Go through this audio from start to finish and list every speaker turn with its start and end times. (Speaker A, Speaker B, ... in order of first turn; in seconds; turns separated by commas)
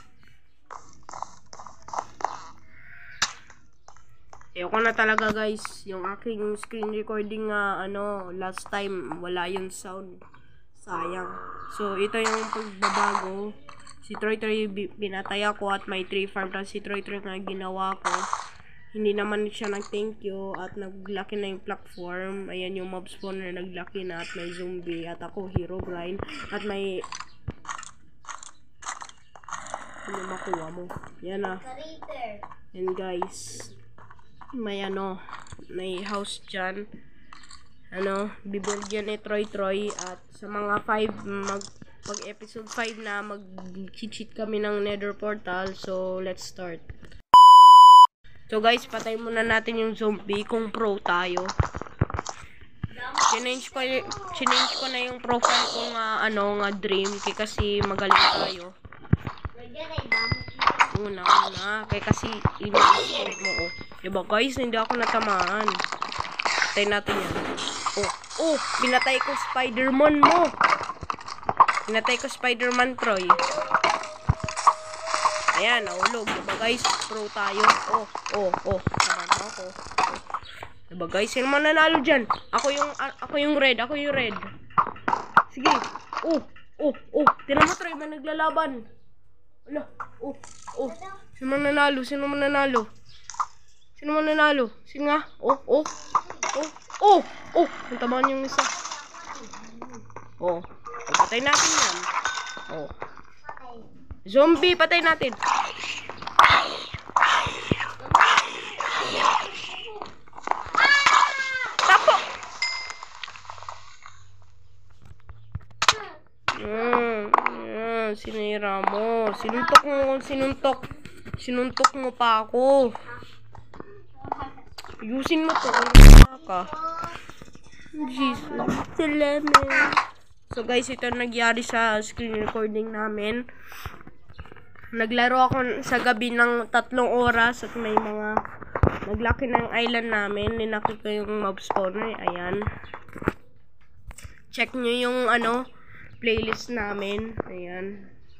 Speaker A: 4.6-10.2, Speaker A: 10.8-13.5, Speaker A: 14.0-18.2, Speaker A: 18.9-27.0, Speaker A: 30.1-31.6, Speaker B: 31.4-32.5, Speaker A: 32.7-33.7, Speaker A: 34.5-35.2, Speaker A: 35.7-36.8, Speaker A: 37.9-46.8, Speaker A: 48.5-51.5, Speaker B: 52.9-54.4, Speaker A: 53.3-58.7, Speaker B: 59.5-60.9, Speaker A: 60.9-65.8, Speaker A: 66.7-67.4, Speaker A: 68.0-70.5, Speaker A: 71.9-73.5, Speaker A: 75.5-80.2, Speaker A: 80.9-84.5, Speaker A: 85.5-88.8, Speaker A: 89.7-92.9, Speaker B: 90.8-91.2, Speaker A: 94.0-95.9, Speaker B: 96.0-96.5, Speaker A: 96.5-98.7, Speaker B: 98.3-100.0, Speaker A: 100.4-102.1, Speaker B: 103.4-103.9, Speaker A: 104.3-105.4, Speaker B: 108.0-110.1, Speaker B: 110.8-111.8, Speaker A: 111.8-112.3, Speaker A: 116.5-123.0, Speaker B: 119.5-120.9, Speaker B: 124.2-124.5, Speaker A: 125.0-126.7, Speaker B: 126.5-127.2, Speaker A: 127.9-133.4, Speaker B: 128.0-128.7, Speaker A: 134.9-138.3, Speaker A: 139.0-142.6, Speaker A: 144.5-145.6, Speaker A: 146.2-148.1